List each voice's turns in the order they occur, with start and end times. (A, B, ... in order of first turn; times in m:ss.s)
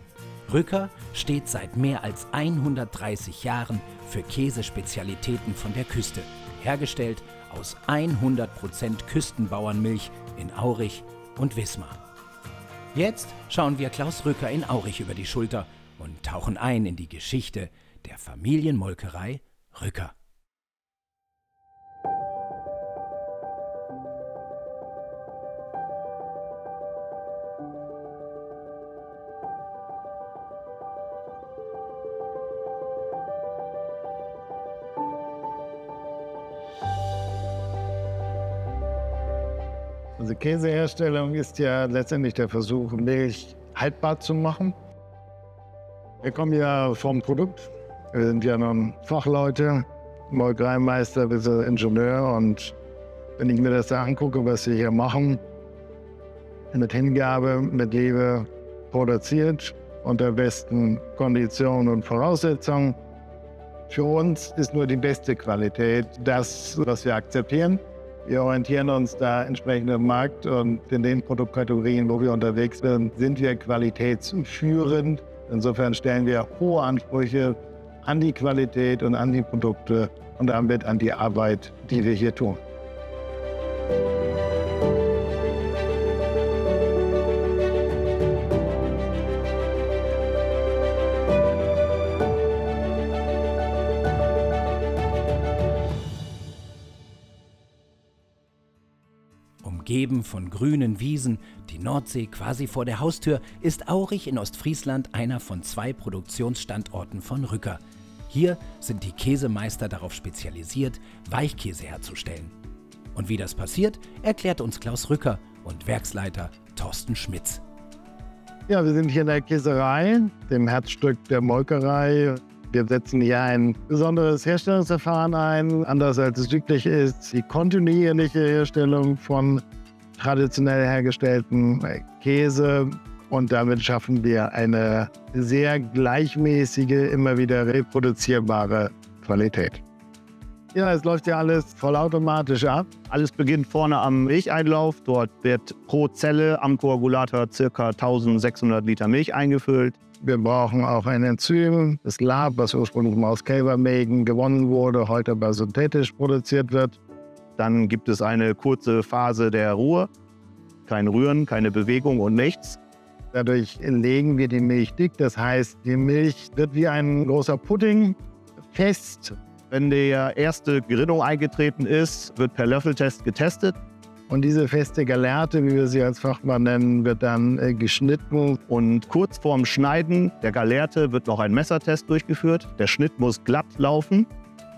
0:00.5-0:12.0 A
0:12.9-0:20.1 A
0:40.2-0:44.7 B
0:46.2-0:52.7 B
0:53.4-0:55.4 B
0:56.7-1:03.0 B
1:03.9-1:22.6 B
1:39.6-1:52.5 A
1:53.1-1:57.6 A
1:58.7-2:09.6 B
2:10.2-2:19.8 B
2:20.7-2:22.9 B
2:23.1-2:30.0 C
2:30.2-2:37.0 B
2:37.6-2:40.1 C
2:40.9-2:42.8 C
2:43.3-2:48.2 B
2:48.7-2:49.4 B
2:49.7-2:53.8 C
2:54.3-2:58.6 B
2:58.7-3:04.3 C